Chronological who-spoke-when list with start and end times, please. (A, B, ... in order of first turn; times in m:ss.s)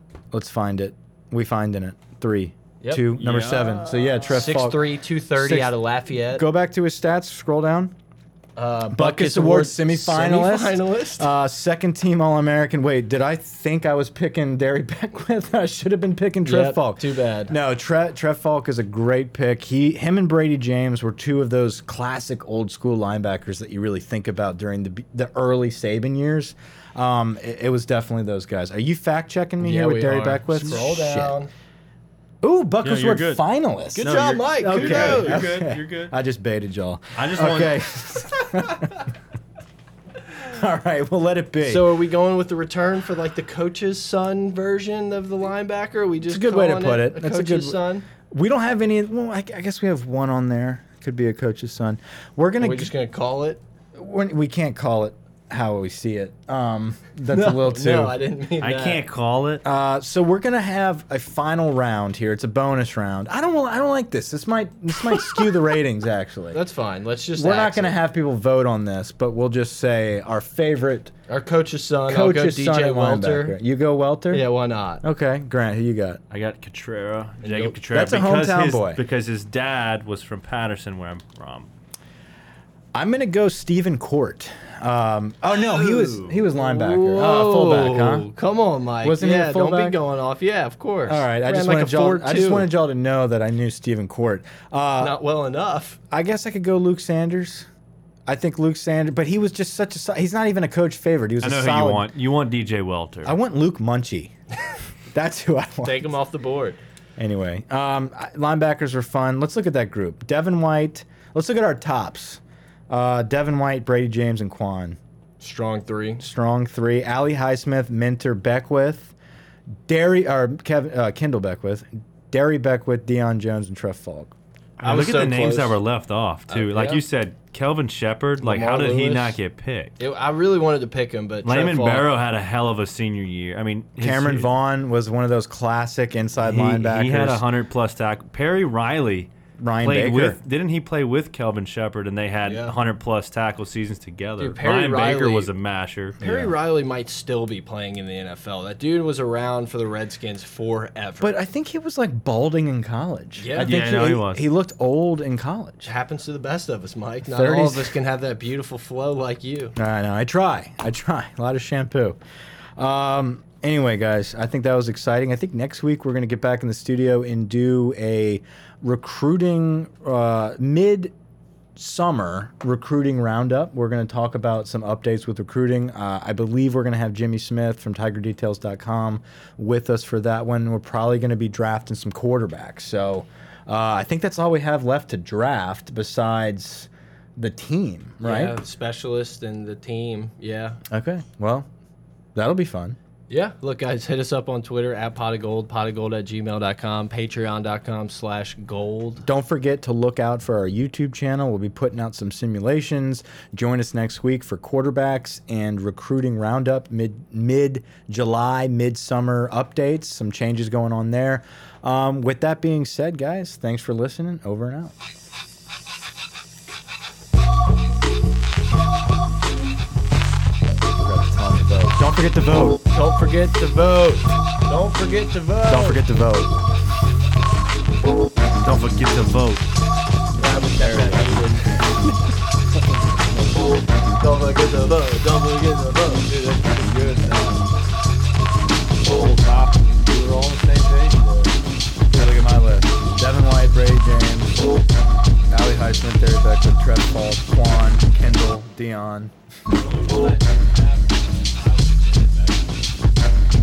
0:00.3-0:04.8 A
0:02.8-0:03.1 B
0:03.1-0:04.2 C
0:04.2-0:06.4 B
0:05.4-0:05.7 A
0:06.3-0:08.0 A
0:08.6-0:11.3 B
0:08.9-0:31.4 A
0:16.5-0:17.5 B
0:29.6-0:31.5 B
0:32.4-0:39.0 A
0:32.8-0:33.4 C
0:33.9-0:35.6 B
0:34.0-0:36.1 C
0:37.2-0:37.9 C
0:40.3-0:41.8 A
0:41.6-0:48.1 B
0:46.3-0:52.9 A
0:52.6-0:53.6 B
0:54.0-0:58.2 A
0:57.3-0:59.0 B
0:58.6-0:59.6 C
0:59.6-1:06.6 A
1:06.5-1:08.0 B
1:07.4-1:11.1 A
1:11.3-1:13.6 B
1:12.1-1:14.4 A
1:14.3-1:15.0 B
1:15.0-1:16.2 A
1:16.3-1:21.7 C
1:17.4-1:17.7 B
1:17.8-1:19.0 A
1:22.9-1:28.3 A
1:25.6-1:26.3 C
1:26.6-1:32.7 B
1:29.0-1:30.0 A
1:31.1-1:35.2 A
1:35.0-1:36.0 B
1:36.1-1:37.7 A
1:38.3-1:42.1 A
1:41.4-1:43.3 C
1:43.2-1:44.4 A
1:45.1-1:46.1 A
1:45.8-1:46.8 B
1:47.2-1:55.0 A
1:55.4-1:56.2 B
1:56.2-1:59.2 A
1:59.9-2:04.4 A
2:04.8-2:10.0 C
2:04.8-2:05.8 B
2:06.5-2:07.0 B
2:08.4-2:09.4 B
2:10.0-2:12.1 B
2:11.4-2:14.5 C
2:14.0-2:17.4 A
2:16.4-2:19.3 C
2:19.6-2:20.4 A
2:19.8-2:26.2 C
2:22.4-2:22.8 B
2:24.4-2:25.5 B
2:26.2-2:31.4 B
2:26.2-2:26.5 A
2:31.2-2:35.9 A
2:33.4-2:33.7 B
2:33.6-2:34.4 C
2:35.8-2:39.8 B
2:37.3-2:37.9 A
2:39.8-2:42.2 A
2:42.8-2:51.1 A
2:51.8-3:08.6 A
3:08.2-3:10.8 B
3:10.9-3:11.7 A
3:12.4-3:13.0 A
3:13.3-3:19.2 B
3:19.2-3:34.9 A
3:41.0-3:42.8 A
3:42.9-3:46.0 B
3:45.7-3:46.5 A
3:48.6-3:49.7 C
3:50.4-3:51.8 B
3:50.8-3:52.2 A
3:54.2-3:57.7 B
3:59.1-4:01.4 A
4:00.7-4:01.5 B
4:02.1-4:04.6 A
4:05.5-4:09.3 A
4:09.7-4:12.8 B